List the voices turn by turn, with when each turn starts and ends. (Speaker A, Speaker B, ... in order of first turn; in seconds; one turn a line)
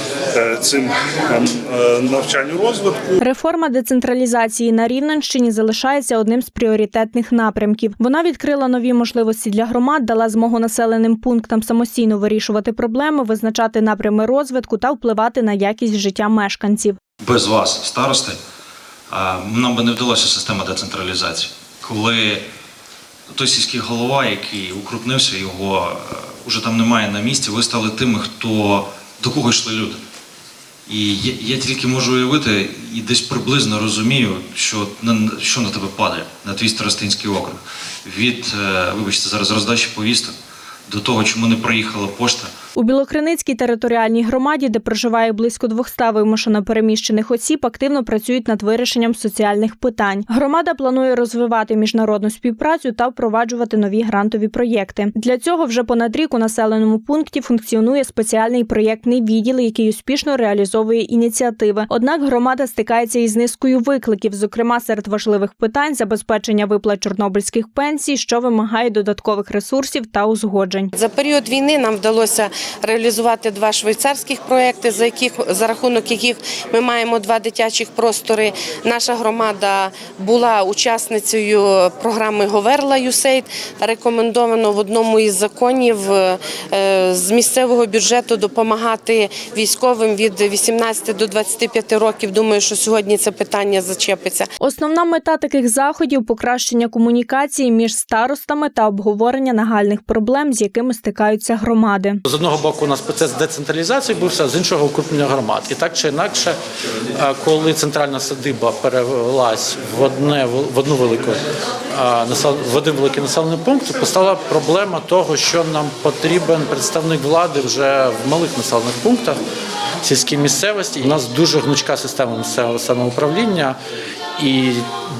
Speaker A: 0.3-3.2
Speaker B: 3.2-17.0
Speaker C: 17.2-18.4
Speaker C: 19.1-22.4
Speaker C: 23.3-30.0
Speaker C: 30.9-40.3
Speaker C: 40.9-42.5
Speaker B: 42.8-70.9
Speaker D: 71.1-86.2
Speaker D: 87.1-94.4
Speaker B: 94.6-102.2
Speaker E: 102.2-106.5
Speaker E: 107.1-119.4
Speaker E: 120.0-123.8
Speaker E: 124.4-124.8